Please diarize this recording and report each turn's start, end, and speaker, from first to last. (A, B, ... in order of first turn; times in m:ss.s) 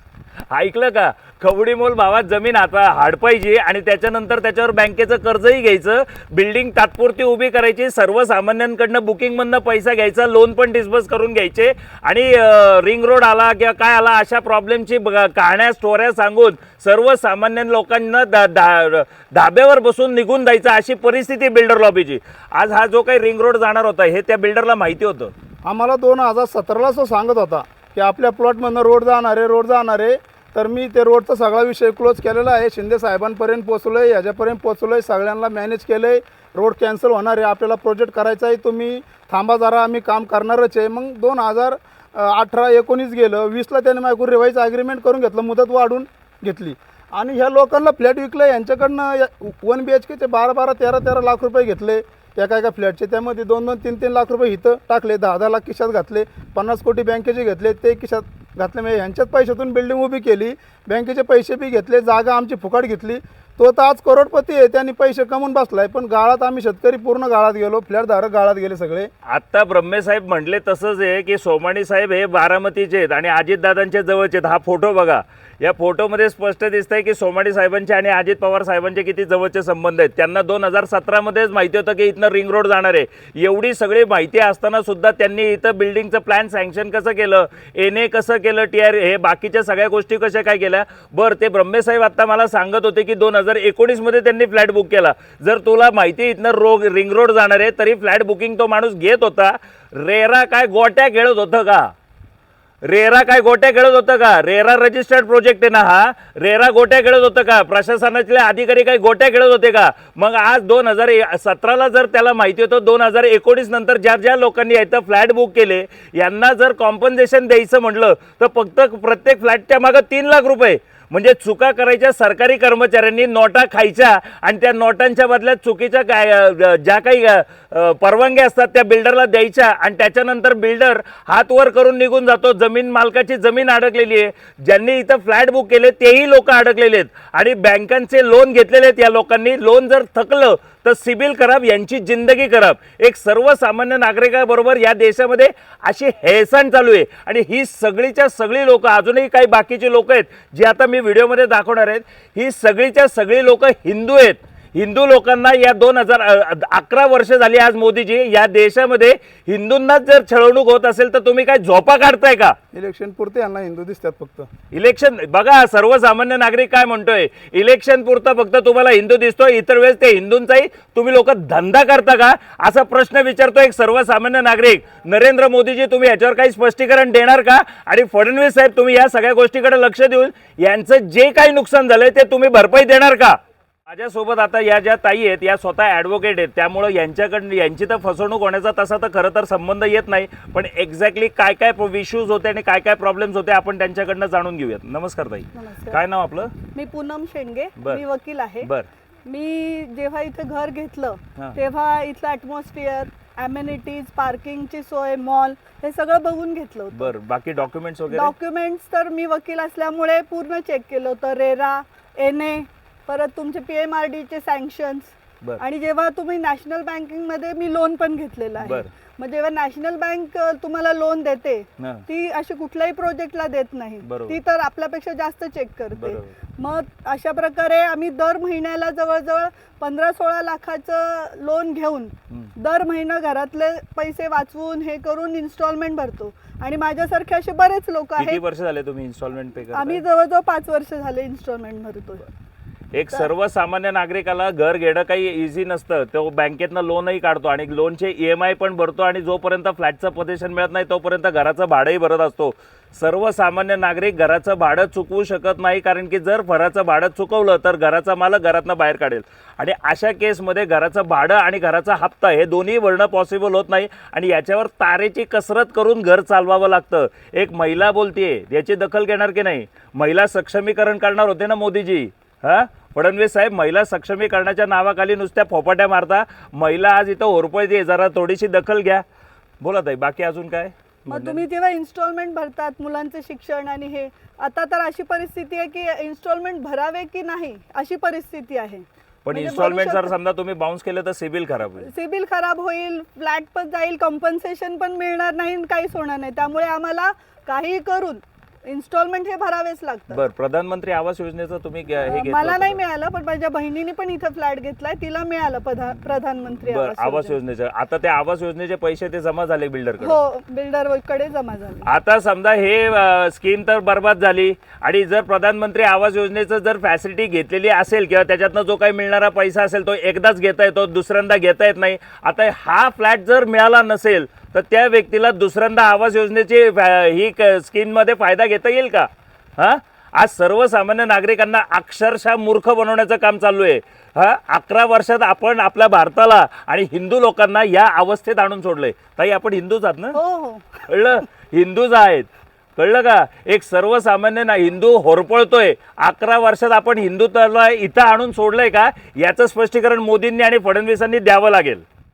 0:00.5-0:25.3 A
0:25.6-1:09.1 B
1:09.2-1:41.9 A
1:42.8-2:42.6 A
2:42.7-2:44.5 B
2:44.7-3:16.5 A
3:15.5-3:16.0 C
3:16.7-3:18.7 C
3:17.8-3:18.0 A
3:18.6-3:18.9 A
3:19.2-3:27.2 C
3:26.9-3:28.3 A
3:28.1-3:58.4 C
3:38.6-3:38.9 A
3:41.8-3:42.1 A
3:44.0-3:44.4 A
3:46.0-3:46.3 A
3:58.2-4:00.0 A
3:59.7-4:02.2 C
4:02.9-4:39.0 A
4:39.6-4:41.4 A
4:41.1-4:50.1 C
4:49.2-4:51.9 A
4:51.8-5:00.2 C
5:00.1-5:02.8 A
5:02.0-5:07.4 C
5:06.6-5:10.2 A
5:10.0-5:11.9 C
5:11.8-5:40.2 A
5:40.1-5:40.8 C
5:40.9-5:51.8 A